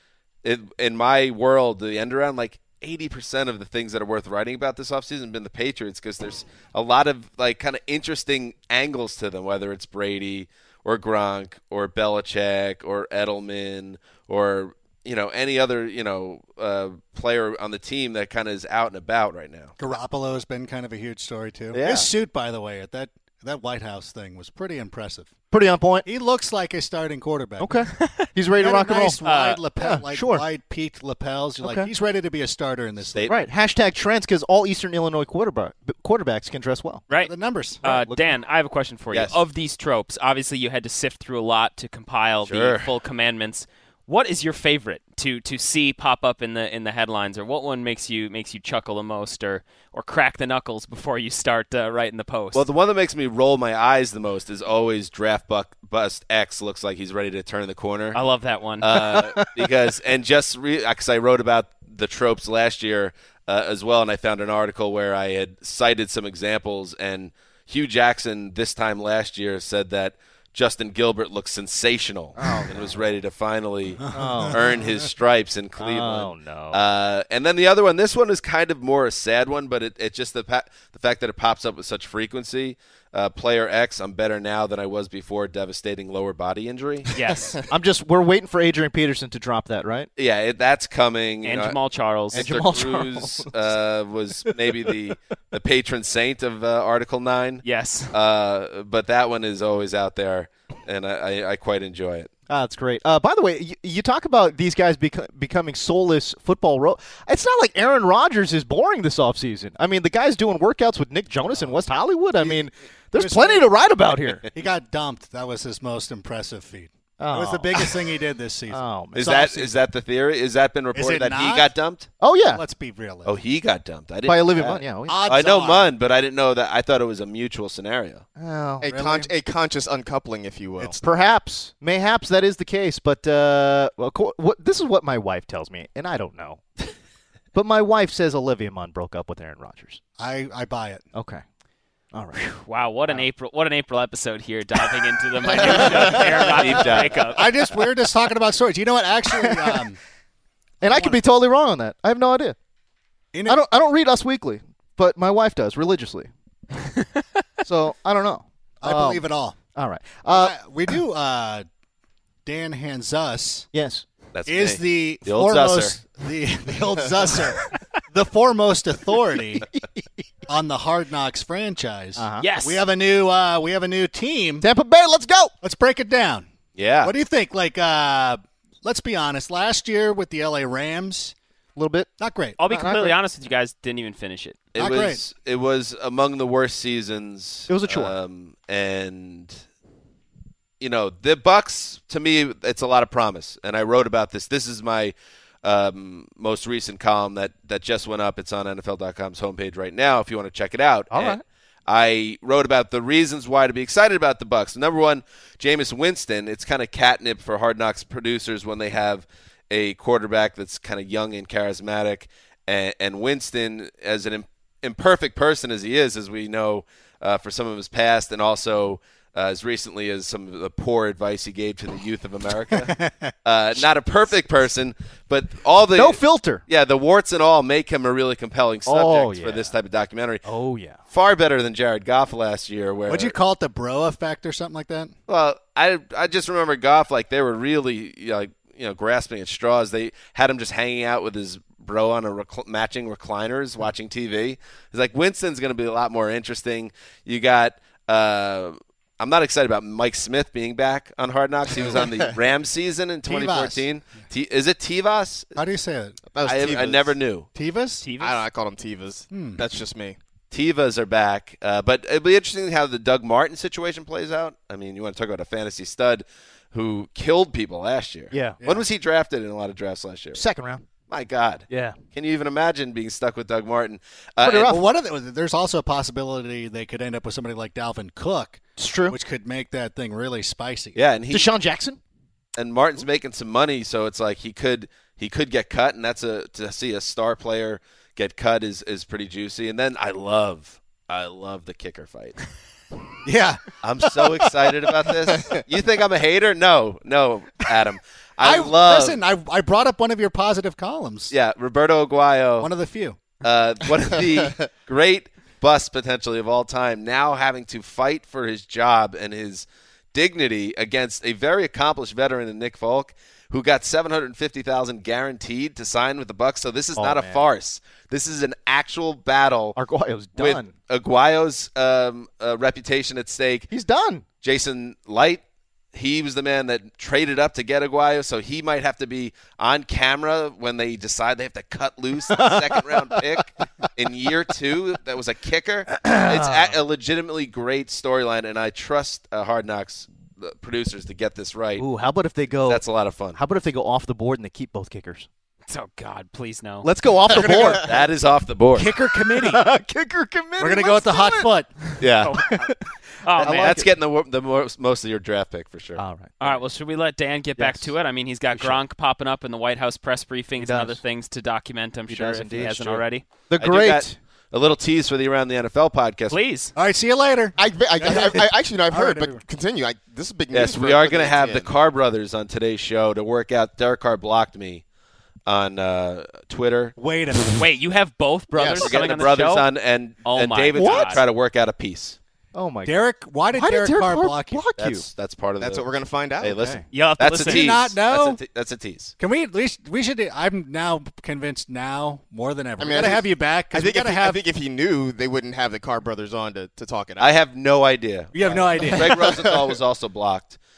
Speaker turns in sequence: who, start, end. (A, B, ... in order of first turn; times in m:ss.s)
0:00.4-0:19.8 A
0:19.8-0:25.3 B
0:21.7-0:22.1 A
0:25.5-0:26.1 C
0:26.0-0:27.8 B
0:27.6-0:29.2 C
0:28.0-0:28.3 D
0:28.5-0:33.2 B
0:29.2-0:29.6 D
0:29.8-0:30.4 C
0:31.6-0:31.9 C
0:33.1-0:33.4 A
0:33.2-0:37.0 C
0:37.1-0:52.7 D
0:37.2-0:37.8 B
0:37.8-0:38.3 C
0:39.1-0:39.4 A
0:42.4-0:42.9 A
0:52.5-0:58.2 A
0:58.1-0:59.3 D
0:58.8-1:27.1 A
0:58.9-0:59.7 C
1:12.3-1:13.1 C
1:14.0-1:14.7 B
1:14.1-1:14.7 C
1:15.8-1:16.8 C
1:27.1-1:27.6 D
1:27.7-1:30.1 C
1:30.2-1:31.8 A
1:31.4-1:32.5 D
1:32.3-1:42.3 A
1:32.3-1:33.7 C
1:37.6-1:38.1 D
1:42.5-1:54.4 C
1:53.1-1:53.7 B
1:54.5-1:59.7 B
1:57.2-1:58.0 C
1:58.7-1:59.3 C
1:59.1-2:02.1 A
2:00.9-2:01.7 B
2:02.2-2:02.6 C
2:02.4-2:03.4 B
2:03.2-2:08.2 A
2:04.2-2:05.2 C
2:05.0-2:05.9 B
2:08.4-2:08.9 C
2:08.8-2:11.0 E
2:08.8-2:09.3 B
2:11.0-2:16.6 C
2:17.5-2:20.0 C
2:20.2-2:21.0 B
2:21.1-2:21.4 C
2:22.1-2:23.2 C
2:22.6-2:27.4 D
2:25.5-2:26.8 C
2:26.4-2:27.2 A
2:26.6-2:30.0 B
2:29.3-2:29.8 C
2:30.8-2:32.6 C
2:30.8-2:31.2 B
2:33.3-2:33.6 B
2:33.4-2:36.3 C
2:37.6-2:40.6 C
2:38.8-2:39.6 B
2:40.3-2:41.6 B
2:42.4-2:43.7 B
2:43.7-2:44.0 C
2:44.3-2:46.0 A
2:44.5-2:49.7 B
2:50.5-2:54.6 B
2:52.2-2:52.5 C
2:52.4-2:52.8 D
2:54.6-2:55.5 C
2:55.6-2:56.5 B
2:56.7-2:57.1 A
2:57.0-3:01.3 B
3:01.8-3:02.1 C
3:02.2-3:02.6 B
3:02.6-3:04.6 D
3:02.6-3:03.2 C
3:04.7-3:09.6 A
3:04.8-3:05.2 B
3:07.7-3:08.1 C
3:10.8-3:42.9 A
3:21.1-3:21.4 C
3:42.7-3:43.3 B
3:43.4-3:50.4 A
3:45.9-3:46.6 C
3:48.8-3:49.7 C
3:50.4-3:51.0 C
3:51.1-3:53.3 A
3:53.1-3:55.1 B
3:55.3-4:15.6 A
4:13.2-4:14.2 B
4:15.5-4:16.2 B
4:16.3-4:17.2 E
4:16.4-4:17.5 A
4:17.5-4:18.0 B
4:18.0-4:18.4 D
4:18.2-4:20.2 E
4:19.3-4:19.6 B
4:20.5-4:30.4 A
4:28.3-4:28.6 C
4:28.6-4:28.9 B
4:30.3-4:30.8 C
4:31.1-4:34.7 A
4:31.7-4:32.0 C
4:34.4-4:34.8 C
4:34.6-4:41.0 B
4:38.8-4:39.2 C
4:41.0-4:41.5 A
4:41.3-4:42.0 C
4:42.6-4:52.4 A
4:53.2-4:55.1 B
4:53.8-4:59.2 A
4:58.4-5:01.3 B
5:01.3-5:02.7 A
5:02.6-5:03.4 B
5:03.4-5:19.8 A
5:04.4-5:04.7 E
5:17.0-5:17.4 C
5:19.8-5:20.7 C
5:20.4-5:23.7 A
5:23.7-5:24.2 C
5:24.4-5:41.8 A
5:32.3-5:33.5 C
5:35.9-5:36.8 C
5:41.8-5:45.3 C
5:42.6-5:43.4 A
5:45.7-5:46.9 D
5:46.8-5:47.9 C
5:47.5-5:47.8 B
5:47.8-5:48.9 A
5:48.7-5:49.6 B
5:49.2-5:51.5 C
5:50.6-5:51.9 B
5:52.0-5:52.3 A
5:52.2-5:52.7 D
5:52.3-5:53.9 C
5:53.2-5:53.8 D
5:53.4-5:56.0 A
5:56.0-5:56.6 C
5:56.4-6:03.2 D
5:57.6-5:57.9 C
5:58.5-5:58.8 C
6:00.6-6:01.0 C
6:02.1-6:04.2 C
6:03.6-6:06.4 A
6:06.3-6:06.7 D
6:06.7-6:09.4 B
6:07.6-6:11.7 E
6:10.5-6:14.8 A
6:15.4-6:17.0 A
6:17.0-6:17.7 B
6:17.6-6:19.7 D
6:18.5-6:18.9 E
6:18.7-6:22.2 A
6:20.2-6:21.2 D
6:20.7-6:21.2 C
6:22.5-6:23.0 C
6:22.8-6:24.6 B
6:23.5-6:25.1 C
6:24.8-6:25.8 A
6:25.6-6:26.6 E
6:26.4-6:29.1 A
6:26.5-6:26.8 C
6:26.9-6:27.7 D
6:27.4-6:28.4 B
6:29.2-6:34.4 B
6:32.8-6:37.4 E
6:37.2-6:40.6 A
6:38.3-6:39.3 B
6:38.4-6:39.8 E